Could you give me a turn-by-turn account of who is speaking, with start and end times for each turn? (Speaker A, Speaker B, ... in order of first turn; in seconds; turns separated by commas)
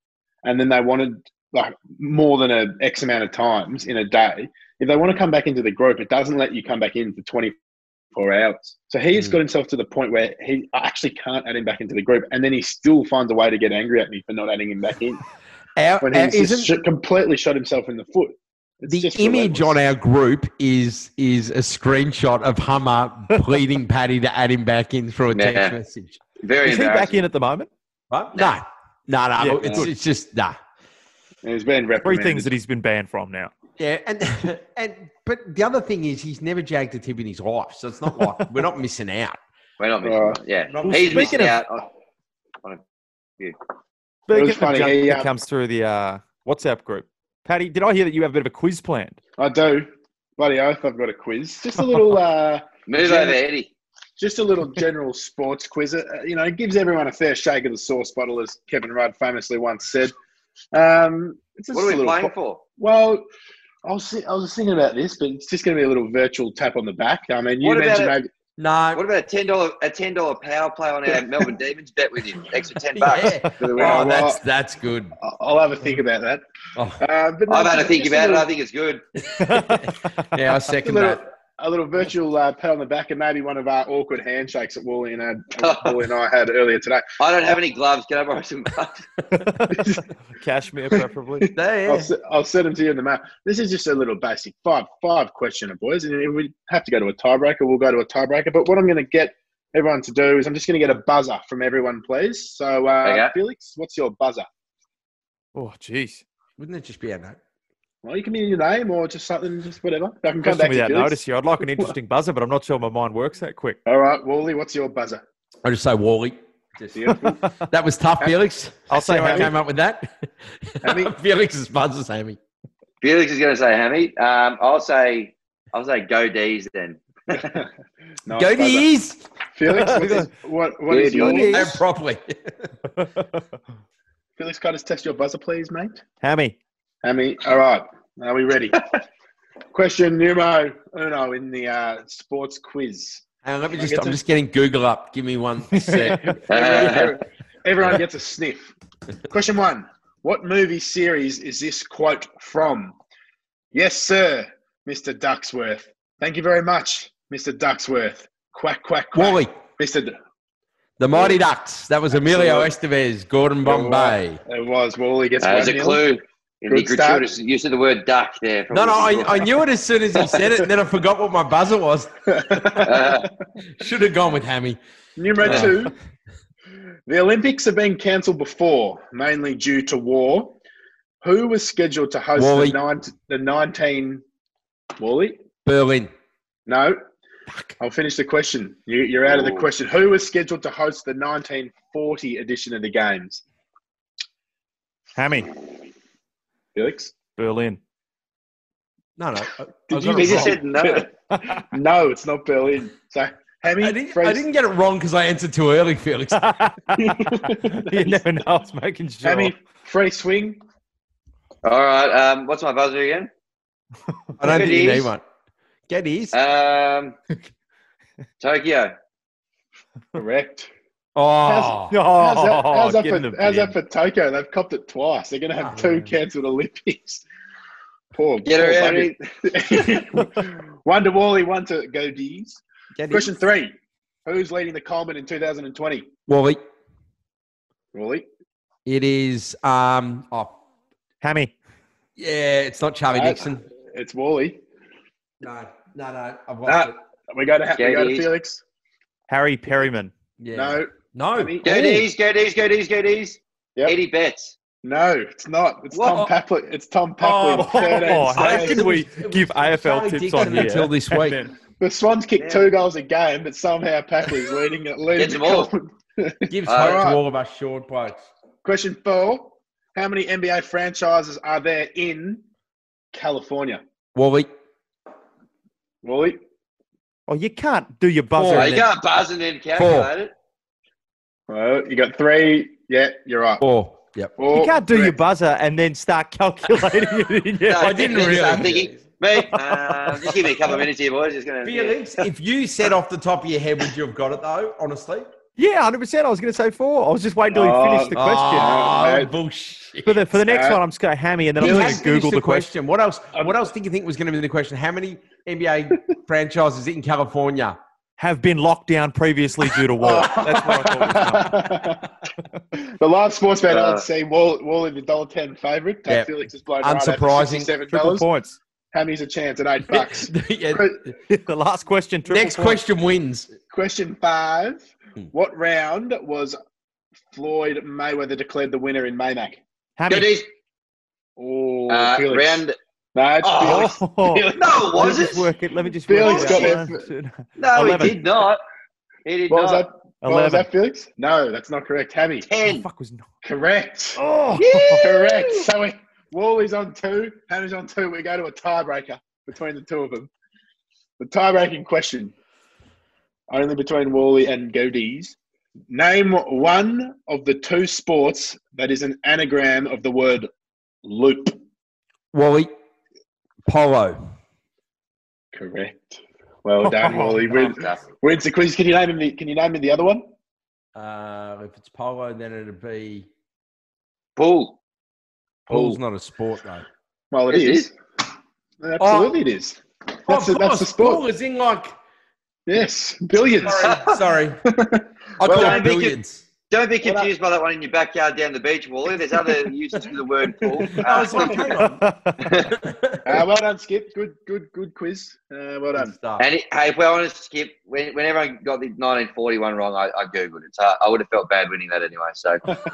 Speaker A: 0.4-7.6, Speaker A: 8.1-15.2, Speaker B: 15.8-16.8, Speaker A: 16.0-19.8, Speaker B: 18.9-26.2, Speaker C: 25.3-25.8, Speaker C: 26.4-27.2, Speaker D: 26.6-27.7, Speaker B: 28.1-30.6, Speaker D: 29.4-29.9, Speaker A: 29.6-29.9, Speaker A: 31.4-32.5, Speaker D: 32.0-33.5, Speaker B: 33.8-39.4, Speaker C: 39.8-41.8, Speaker A: 40.0-40.4, Speaker B: 40.7-41.4, Speaker D: 40.9-41.6, Speaker D: 44.3-49.2, Speaker A: 44.3-45.3, Speaker A: 49.4-53.4, Speaker C: 52.9-53.7, Speaker A: 54.2-60.1, Speaker A: 60.7-63.2, Speaker C: 61.7-62.6, Speaker A: 63.9-68.3, Speaker C: 67.6-68.2, Speaker B: 68.6-69.0, Speaker C: 68.9-74.3, Speaker B: 73.0-75.2, Speaker A: 73.6-74.4, Speaker A: 75.2-76.4, Speaker A: 77.0-78.5, Speaker C: 77.5-79.0, Speaker D: 79.4-80.3, Speaker B: 79.4-81.2, Speaker A: 80.8-87.1, Speaker C: 85.6-86.0, Speaker C: 87.2-89.1, Speaker D: 89.3-91.5, Speaker B: 91.5-92.1, Speaker A: 91.9-104.5, Speaker C: 103.0-103.3, Speaker D: 105.5-106.2, Speaker B: 106.6-107.4, Speaker A: 108.0-111.2, Speaker D: 110.4-113.8, Speaker A: 113.9-115.2, Speaker B: 115.6-122.4, Speaker A: 116.9-117.5, Speaker D: 118.9-119.5, Speaker A: 120.8-121.1, Speaker C: 123.0-127.4, Speaker A: 127.3-127.7, Speaker A: 128.2-128.9, Speaker B: 128.4-129.2, Speaker A: 129.5-131.8, Speaker D: 129.7-130.3, Speaker C: 130.9-131.7, Speaker B: 131.1-132.7, Speaker D: 132.9-133.3, Speaker A: 134.4-136.0, Speaker D: 136.2-136.6, Speaker A: 137.0-138.9, Speaker A: 139.7-144.2, Speaker B: 143.4-147.1, Speaker D: 145.8-146.3, Speaker A: 146.3-148.7, Speaker C: 146.5-147.2, Speaker A: 149.3-152.9, Speaker A: 153.7-160.2, Speaker B: 159.2-159.5, Speaker B: 161.0-164.4, Speaker A: 161.1-161.4, Speaker A: 162.1-162.7, Speaker A: 163.6-166.0, Speaker C: 165.4-169.5, Speaker A: 166.7-167.3, Speaker B: 168.7-172.9, Speaker A: 172.3-173.3, Speaker C: 172.8-173.3, Speaker B: 173.8-174.8, Speaker A: 175.2-175.9, Speaker B: 175.4-175.9, Speaker C: 175.4-175.7, Speaker A: 177.1-180.6, Speaker A: 181.2-184.2, Speaker B: 182.3-182.8, Speaker A: 185.0-185.4, Speaker B: 185.7-186.1, Speaker A: 186.7-187.0, Speaker A: 187.8-193.4, Speaker D: 195.2-195.5, Speaker A: 196.8-197.1, Speaker D: 197.4-197.8, Speaker B: 199.2-200.6, Speaker A: 199.9-204.4, Speaker C: 200.1-201.1, Speaker D: 201.3-201.6, Speaker B: 203.8-206.4, Speaker D: 206.3-209.5, Speaker A: 207.0-208.2, Speaker A: 209.2-210.6, Speaker C: 211.6-213.3, Speaker B: 214.4-215.2, Speaker C: 214.4-215.1, Speaker B: 215.9-216.3, Speaker C: 216.3-217.2, Speaker C: 218.4-218.9, Speaker A: 220.1-220.7, Speaker B: 221.2-221.9, Speaker A: 221.4-227.2, Speaker D: 221.9-223.8, Speaker A: 228.1-236.1, Speaker C: 228.4-229.2, Speaker B: 233.0-233.3, Speaker B: 236.3-236.6, Speaker A: 237.9-238.3, Speaker B: 238.9-240.5, Speaker D: 241.2-241.5, Speaker B: 242.2-243.6, Speaker A: 243.1-244.6, Speaker B: 245.4-247.0, Speaker A: 246.7-248.6, Speaker C: 247.8-248.3, Speaker D: 249.3-250.1, Speaker B: 250.4-252.1, Speaker A: 250.5-251.9, Speaker C: 251.6-254.5, Speaker A: 254.8-258.8, Speaker C: 255.9-256.3, Speaker B: 257.2-261.4, Speaker D: 257.5-261.6, Speaker A: 261.8-267.2, Speaker C: 262.4-262.7, Speaker C: 265.1-265.7, Speaker B: 266.5-268.2, Speaker C: 266.7-267.1, Speaker A: 268.6-272.4, Speaker A: 273.1-273.8, Speaker B: 274.1-274.5, Speaker A: 276.0-276.4, Speaker D: 277.3-278.9, Speaker B: 278.3-278.8, Speaker C: 278.5-280.3, Speaker B: 279.8-280.1, Speaker A: 281.5-283.6, Speaker B: 283.6-284.3, Speaker A: 284.4-285.1, Speaker D: 284.5-288.6, Speaker C: 287.7-292.0, Speaker B: 287.8-289.0, Speaker D: 289.3-290.4, Speaker B: 291.6-295.3, Speaker D: 295.6-298.9, Speaker A: 297.5-299.3, Speaker B: 298.1-300.3, Speaker D: 300.1-302.7, Speaker A: 300.4-300.8, Speaker B: 301.6-307.8, Speaker A: 301.6-302.0, Speaker D: 308.2-311.7, Speaker B: 310.0-310.8, Speaker A: 310.0-312.1, Speaker A: 313.0-318.3, Speaker C: 313.7-314.1, Speaker B: 316.1-317.7, Speaker D: 317.9-318.6, Speaker A: 318.9-321.0, Speaker B: 319.9-321.1, Speaker D: 321.3-322.8, Speaker B: 322.3-323.5, Speaker A: 323.7-326.6, Speaker A: 327.3-329.6, Speaker D: 330.0-330.3, Speaker C: 330.1-330.5, Speaker A: 331.4-332.6, Speaker C: 331.9-332.8, Speaker A: 333.1-335.2, Speaker C: 333.4-334.0, Speaker D: 333.6-338.2, Speaker C: 334.5-335.5, Speaker A: 336.1-337.0, Speaker C: 336.2-336.8, Speaker C: 337.6-338.6, Speaker C: 339.3-339.9, Speaker A: 339.5-342.5, Speaker D: 340.2-340.7, Speaker C: 342.5-342.9, Speaker D: 342.6-343.3, Speaker A: 343.4-344.2, Speaker D: 344.2-345.1, Speaker C: 344.6-345.7, Speaker A: 344.8-350.3, Speaker A: 351.2-352.3, Speaker A: 353.5-355.4, Speaker A: 355.9-360.5, Speaker A: 361.0-361.6, Speaker B: 362.3-362.7, Speaker B: 363.7-364.2, Speaker A: 365.5-370.3, Speaker C: 367.0-368.0, Speaker B: 370.9-373.3, Speaker C: 374.4-374.8, Speaker A: 375.7-376.0, Speaker B: 375.7-376.9, Speaker A: 377.3-377.9, Speaker C: 377.5-377.9, Speaker A: 378.8-381.2, Speaker B: 379.0-379.3, Speaker B: 380.3-381.9, Speaker A: 382.7-384.0, Speaker B: 383.6-384.6, Speaker C: 383.7-384.2, Speaker A: 384.7-385.9, Speaker B: 385.4-386.4, Speaker C: 385.5-386.2, Speaker C: 386.7-391.8, Speaker A: 387.0-387.3, Speaker A: 389.3-389.7, Speaker A: 390.7-391.8, Speaker B: 391.0-392.1, Speaker D: 391.8-392.5, Speaker C: 392.4-392.8, Speaker B: 392.7-393.4, Speaker A: 393.2-396.1, Speaker B: 395.9-396.5, Speaker C: 396.4-402.7